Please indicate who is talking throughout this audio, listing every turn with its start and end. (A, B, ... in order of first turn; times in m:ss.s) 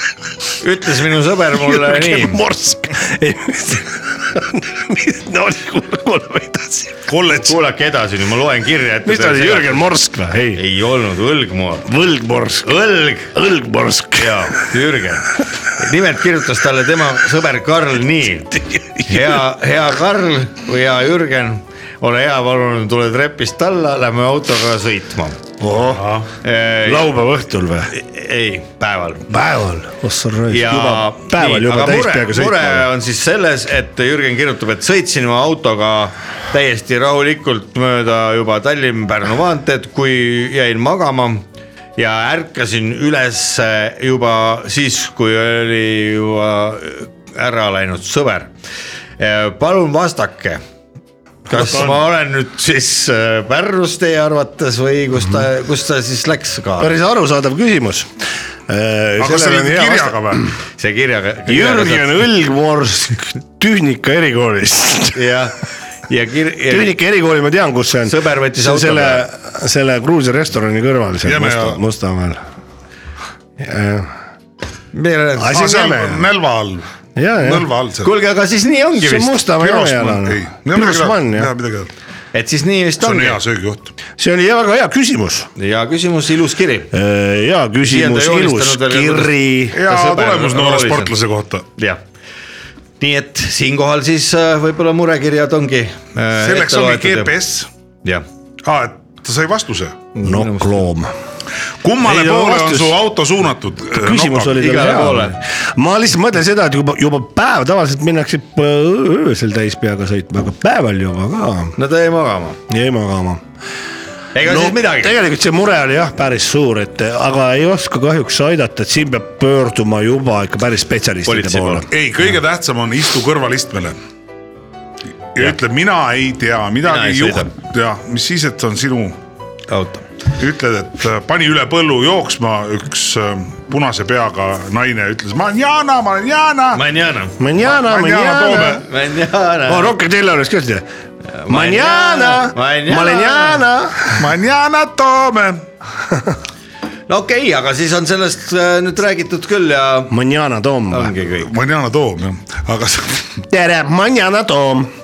0:00.6-0:02.4 A
0:01.6-0:07.0 B
0:07.1-0:07.5 C
0:07.3-0:09.9 A
0:09.0-0:10.6 B
0:10.5-0:11.9 A
0:11.8-0:12.7 B
0:12.6-0:13.3 A
0:13.3-0:14.7 B
0:14.2-0:18.5 A
0:18.5-0:19.4 B
0:19.1-0:25.4 A
0:25.6-0:26.1 B
0:25.9-0:26.3 C
0:26.4-0:27.1 A
0:26.8-0:27.9 B
0:27.9-0:29.2 A
0:29.3-0:32.9 B
0:30.5-0:41.4 A
0:42.0-0:48.5 A
0:49.2-0:50.6 A
0:51.5-0:56.9 A
0:51.5-0:52.0 B
0:56.8-0:58.1 B
0:58.7-1:00.4 B
0:59.2-1:00.4 C
1:00.8-1:02.2 A
1:01.5-1:05.2 B
1:05.1-1:06.9 A
1:06.7-1:12.4 B
1:08.0-1:09.2 A
1:11.2-1:11.8 C
1:13.6-1:14.1 B
1:14.9-1:15.6 A
1:15.4-1:16.3 B
1:15.5-1:16.9 C
1:17.1-1:17.7 B
1:17.4-1:18.1 C
1:18.0-1:19.4 A
1:19.0-1:21.5 B
1:19.6-1:21.9 C
1:22.3-1:23.4 A
1:23.0-1:23.9 C
1:24.2-1:25.5 B
1:25.6-1:26.9 A
1:26.9-1:29.8 B
1:27.8-1:31.1 A
1:29.7-1:31.7 C
1:33.0-1:37.3 A
1:36.3-1:37.7 C
1:38.6-1:40.0 C
1:40.1-1:40.9 A
1:40.2-1:41.1 B
1:41.8-1:44.6 C
1:42.0-1:43.0 B
1:44.0-1:51.8 B
1:44.6-1:45.4 A
1:51.8-1:52.6 A
1:52.7-1:53.4 B
1:54.3-1:55.2 A
1:54.4-2:01.9 B
2:01.2-2:01.8 A
2:01.9-2:04.0 C
2:05.3-2:09.2 C
2:06.8-2:07.5 A
2:09.7-2:10.0 A
2:10.4-2:16.8 C
2:16.7-2:17.4 A
2:17.4-2:18.8 B
2:17.6-2:18.8 C
2:18.8-2:19.9 A
2:19.7-2:20.8 B
2:21.4-2:23.7 A
2:21.5-2:24.2 B
2:24.2-2:25.6 C
2:27.1-2:30.1 A
2:30.1-2:31.1 B
2:30.9-2:31.5 A
2:31.4-2:33.3 C
2:33.5-2:34.9 B